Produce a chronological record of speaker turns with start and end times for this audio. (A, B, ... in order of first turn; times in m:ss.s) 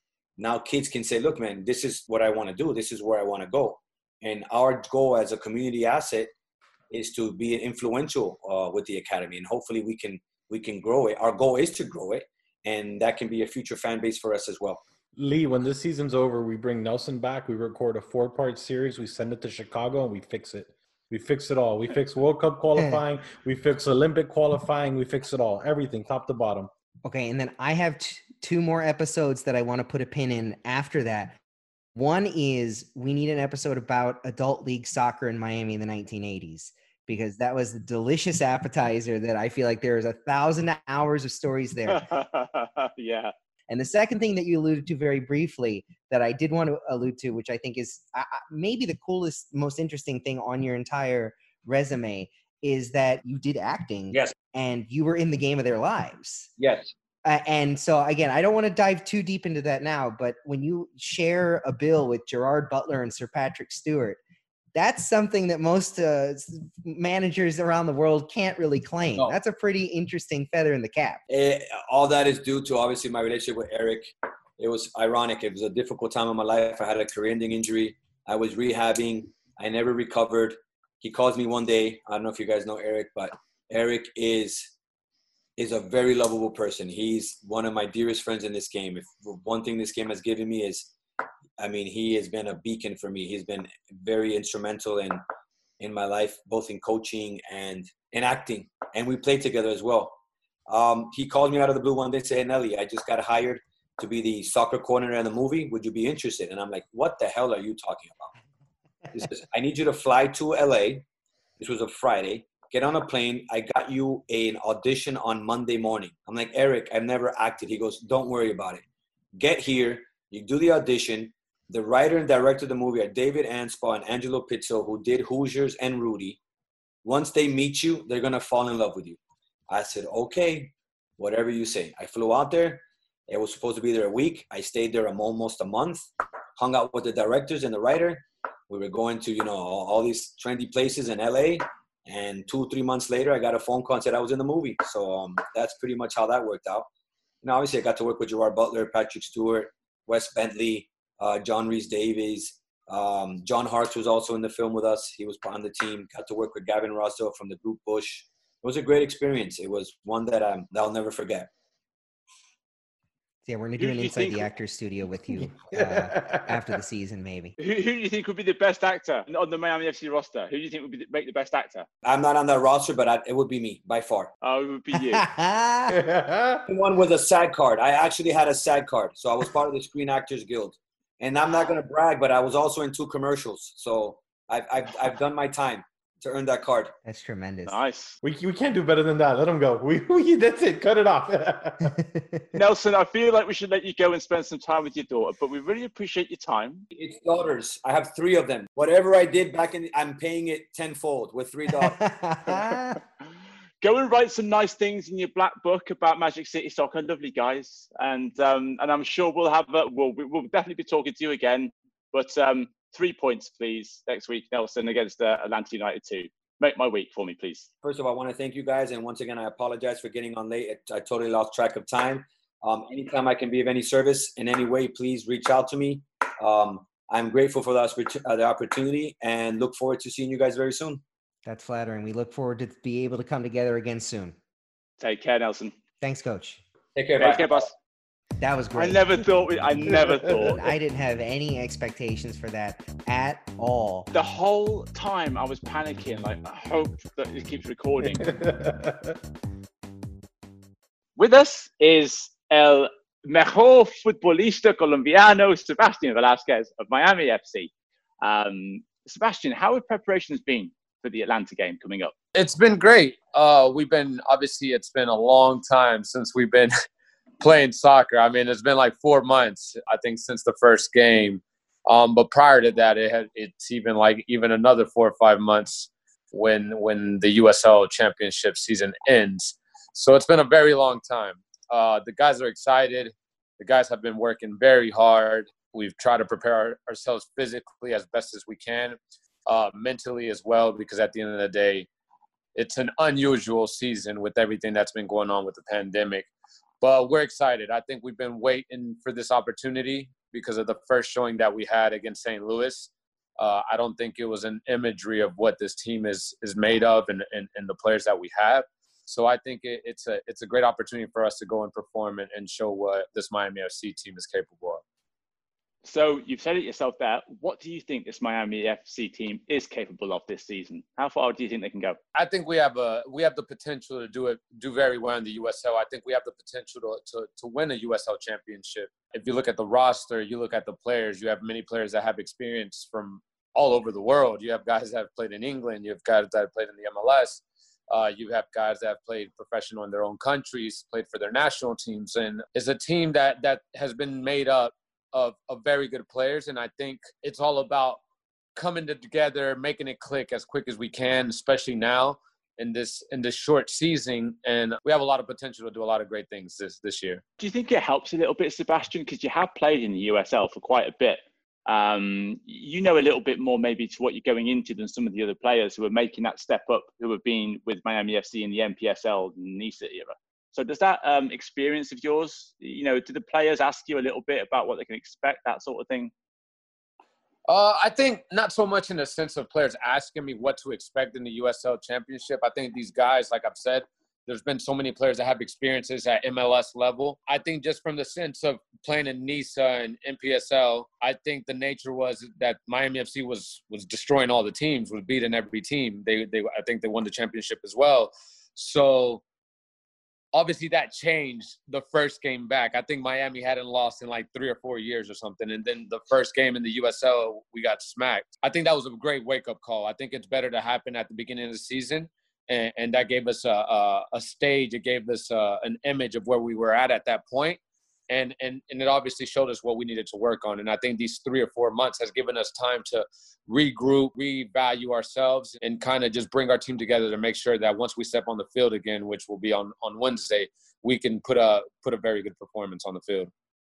0:00.4-0:06.3 A
0:06.9-0:14.8 A
0:15.2-0:26.7 B
0:27.0-0:31.4 C
0:31.9-0:42.1 C
0:41.9-0:43.3 D
0:43.7-0:56.5 C
0:56.6-0:56.9 A
0:57.2-1:04.2 C
1:04.7-1:11.2 C
1:11.3-1:24.7 A
1:25.6-1:30.9 A
1:31.6-1:35.2 A
1:35.8-1:48.3 A
1:49.1-1:51.0 A
1:51.6-1:58.8 A
1:59.4-2:06.4 A
2:07.0-2:09.2 A
2:09.7-2:16.1 A
2:16.6-2:26.9 A
2:27.4-2:41.5 A
2:43.5-2:47.5 C
2:43.8-2:44.5 D
2:45.7-2:46.6 B
2:47.6-2:51.9 D
2:52.0-2:54.3 A
2:54.4-2:55.2 D
2:54.9-2:56.0 C
2:55.9-2:56.6 B
2:56.7-3:06.9 A
3:07.0-3:07.8 C
3:07.7-3:08.2 D
3:08.2-3:12.0 B
3:12.0-3:12.4 C
3:12.5-3:16.9 D
3:16.9-3:22.0 A
3:21.8-3:23.0 C
3:23.8-3:37.7 D
3:37.8-3:51.0 A
3:51.4-3:54.4 C
3:55.0-3:55.7 D
3:56.0-3:56.6 C
3:56.9-3:57.6 A
3:57.2-3:57.7 D
3:58.4-3:59.1 C
3:58.8-4:00.7 D
3:59.7-4:04.1 C
4:04.1-4:08.3 D
4:08.2-4:09.2 B
4:11.2-4:17.7 D
4:18.2-4:22.1 D
4:22.4-4:26.7 E
4:27.4-4:51.9 E
4:52.5-4:56.3 E
4:56.8-5:14.8 E
5:15.8-5:22.0 D
5:22.1-5:48.0 E
5:48.6-5:57.2 E
5:57.4-6:16.1 D
6:17.5-6:39.2 E
6:40.3-7:13.3 E